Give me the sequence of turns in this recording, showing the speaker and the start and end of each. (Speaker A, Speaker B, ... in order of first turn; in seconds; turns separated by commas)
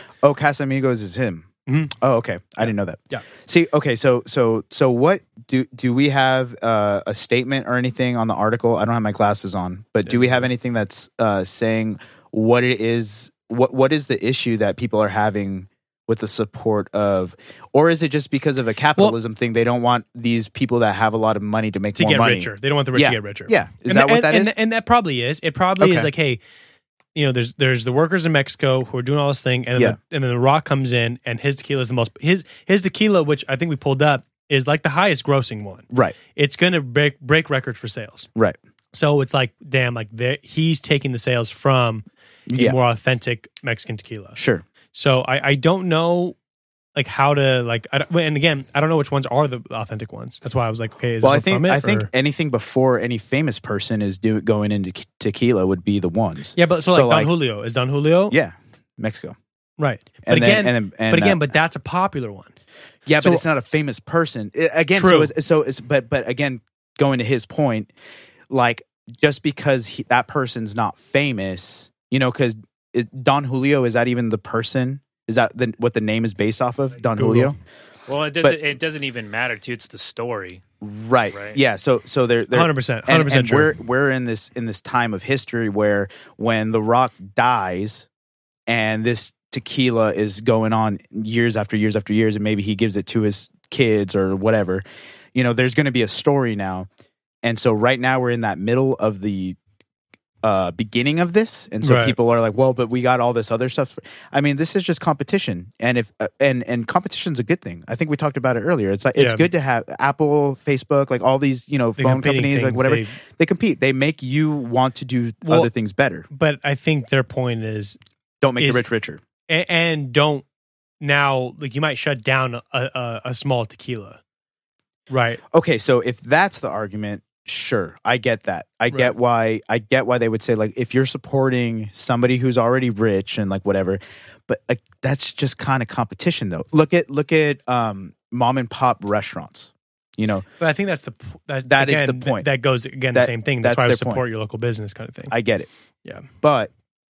Speaker A: 0.2-24.5, Speaker B: 1.7-1.9, Speaker B: 2.6-3.2, Speaker B: 10.1-10.5, Speaker B: 22.0-26.4, Speaker A: 25.8-26.1, Speaker B: 27.1-38.3, Speaker A: 35.9-36.2, Speaker B: 38.9-44.4, Speaker A: 42.5-42.8, Speaker A: 44.4-44.6, Speaker B: 44.9-46.4, Speaker B: 47.0-52.1, Speaker A: 51.2-57.3, Speaker B: 56.6-58.4, Speaker A: 58.3-59.4, Speaker B: 59.8-62.5, Speaker A: 60.2-61.5, Speaker A: 63.1-67.9, Speaker B: 64.9-65.3, Speaker A: 68.5-77.6, Speaker B: 77.2-77.5, Speaker C: 78.1-80.6, Speaker A: 80.8-88.1, Speaker C: 81.3-81.6, Speaker B: 82.5-83.8, Speaker A: 88.7-94.8, Speaker A: 95.3-96.9, Speaker A: 97.4-99.6, Speaker A: 100.4-116.3, Speaker B: 101.8-102.2, Speaker B: 109.2-109.5, Speaker B: 112.0-113.2, Speaker B: 115.4-115.7, Speaker B: 116.3-118.0, Speaker A: 118.4-119.2, Speaker B: 118.6-118.8, Speaker B: 119.5-120.5, Speaker B: 121.0-124.2, Speaker B: 125.1-125.4, Speaker A: 125.5-140.5, Speaker B: 140.6-145.3, Speaker A: 141.7-142.5, Speaker A: 143.1-144.2, Speaker A: 145.3-145.7, Speaker A: 146.4-146.7